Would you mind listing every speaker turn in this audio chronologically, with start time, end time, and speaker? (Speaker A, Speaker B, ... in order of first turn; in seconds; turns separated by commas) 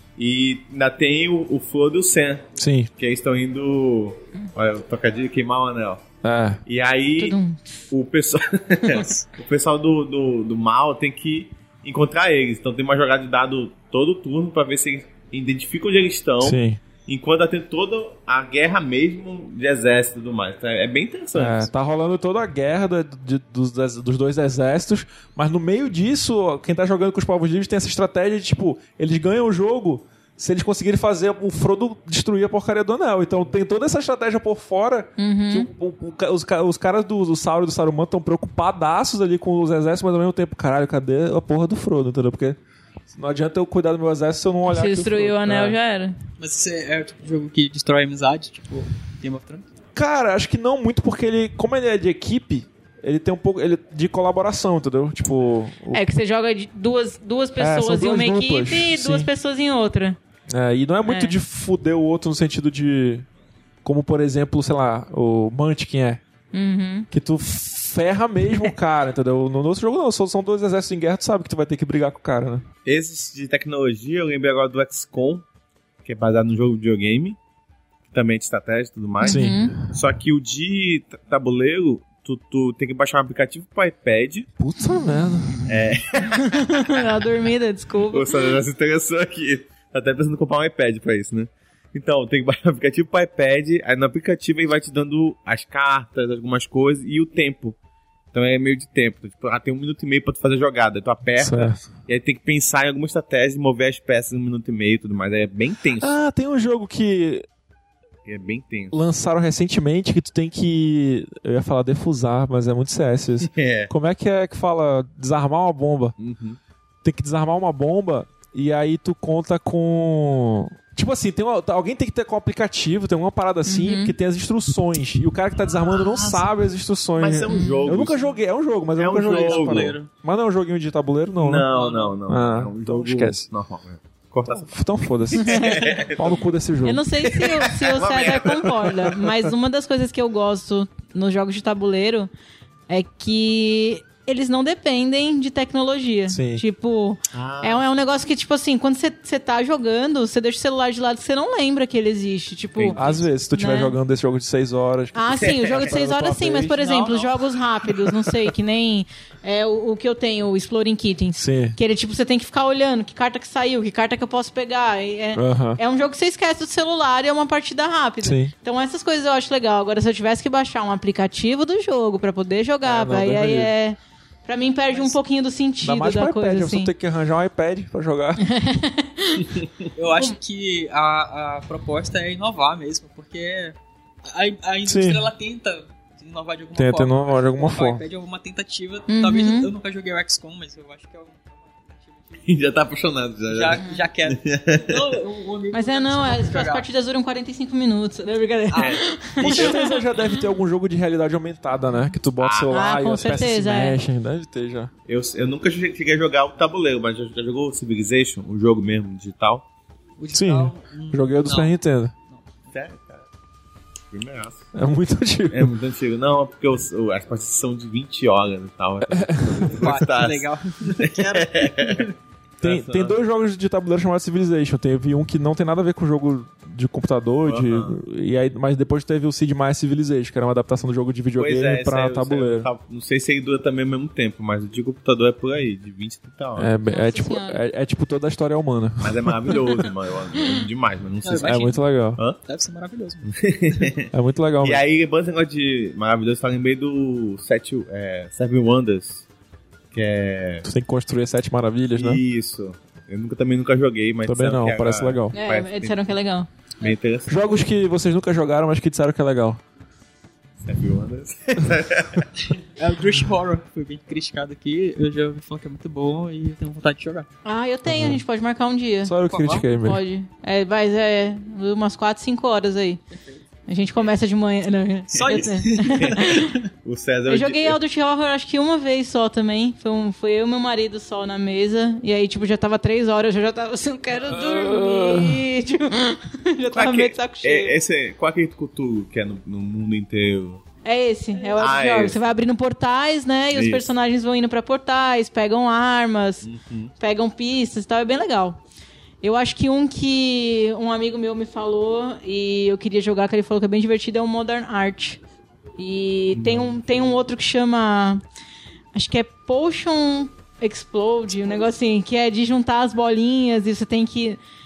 Speaker A: 0.2-6.0, Speaker B: 2.5-2.9, Speaker B: 6.2-6.6, Speaker A: 6.7-7.4, Speaker C: 7.2-7.8, Speaker A: 7.9-21.7, Speaker D: 8.9-9.2, Speaker B: 16.4-16.8, Speaker B: 21.3-42.6, Speaker C: 35.2-35.7, Speaker B: 43.1-45.8, Speaker C: 44.7-46.2, Speaker D: 46.4-49.7, Speaker B: 49.9-56.0, Speaker C: 55.9-60.2, Speaker B: 57.6-59.3, Speaker B: 60.5-63.3, Speaker C: 61.0-61.4, Speaker B: 63.8-66.2, Speaker C: 66.5-67.1, Speaker B: 67.1-72.6, Speaker A: 72.8-75.4, Speaker A: 76.0-77.4, Speaker A: 78.1-84.5, Speaker C: 79.2-79.8, Speaker B: 79.2-79.9, Speaker B: 84.6-85.7, Speaker C: 84.8-85.1, Speaker A: 85.6-87.2, Speaker C: 86.4-88.5, Speaker A: 88.1-97.8, Speaker A: 98.3-106.1, Speaker B: 101.4-101.8, Speaker B: 106.0-107.5, Speaker A: 108.2-108.9, Speaker B: 108.9-116.2, Speaker A: 113.4-113.9, Speaker A: 116.2-116.6, Speaker B: 117.0-131.7, Speaker C: 123.7-124.1, Speaker A: 126.0-126.4, Speaker A: 127.2-128.3, Speaker C: 127.5-127.9, Speaker A: 129.0-130.0, Speaker D: 129.2-130.1, Speaker A: 131.4-134.7, Speaker D: 131.7-132.2, Speaker B: 132.3-133.4, Speaker B: 134.6-137.0, Speaker A: 135.3-136.5, Speaker C: 135.4-136.0, Speaker C: 136.8-142.3, Speaker A: 137.2-139.5, Speaker C: 142.9-153.9, Speaker B: 146.3-146.6, Speaker A: 147.3-147.8, Speaker A: 152.8-153.2, Speaker B: 152.9-157.0, Speaker C: 155.1-176.9, Speaker A: 155.4-155.9, Speaker D: 156.8-157.4, Speaker B: 158.1-158.3, Speaker B: 161.4-161.8, Speaker B: 165.3-165.8, Speaker B: 168.2-168.5, Speaker B: 172.8-173.7, Speaker D: 174.9-175.2, Speaker B: 175.8-178.5, Speaker C: 178.4-179.6, Speaker D: 179.9-192.6, Speaker B: 184.8-185.2, Speaker B: 186.8-188.0, Speaker C: 189.1-189.7, Speaker A: 192.4-195.1, Speaker D: 193.4-196.9, Speaker C: 195.7-200.0, Speaker D: 198.7-199.9, Speaker A: 198.7-199.0, Speaker B: 199.4-204.9, Speaker A: 202.4-202.8, Speaker C: 202.7-204.0, Speaker A: 205.1-209.7, Speaker D: 210.2-211.7, Speaker B: 210.3-212.1, Speaker A: 212.7-213.2, Speaker A: 214.1-214.7, Speaker B: 214.7-215.7, Speaker A: 215.5-222.1, Speaker B: 219.1-219.8, Speaker D: 219.8-222.1, Speaker A: 222.6-223.2, Speaker B: 222.6-232.7, Speaker A: 227.4-228.0, Speaker A: 231.3-236.7, Speaker B: 236.6-239.9, Speaker C: 236.9-237.6, Speaker A: 239.0-241.6, Speaker D: 241.2-241.8, Speaker B: 241.4-242.2, Speaker D: 242.4-243.3, Speaker A: 243.2-249.2, Speaker B: 244.1-244.8, Speaker A: 249.9-250.7, Speaker B: 250.6-252.2, Speaker A: 251.9-256.1, Speaker B: 254.2-255.3, Speaker C: 255.3-256.5, Speaker A: 256.8-257.6, Speaker B: 257.3-259.6, Speaker A: 260.6-262.3, Speaker D: 262.8-267.3, Speaker C: 267.4-269.1, Speaker B: 267.9-268.2, Speaker B: 269.0-270.0, Speaker D: 269.3-269.7, Speaker C: 269.7-273.0, Speaker D: 273.1-273.4, Speaker C: 273.7-276.5, Speaker D: 275.1-276.6, Speaker A: 275.2-277.8, Speaker C: 277.3-287.7, Speaker B: 284.3-285.4, Speaker A: 286.7-290.6, Speaker C: 290.8-296.4, Speaker A: 291.6-292.2, Speaker A: 293.5-293.9, Speaker A: 296.4-296.9, Speaker C: 297.0-298.6, Speaker C: 299.2-305.2, Speaker C: 305.8-308.2, Speaker A: 306.3-306.8, Speaker C: 308.9-314.4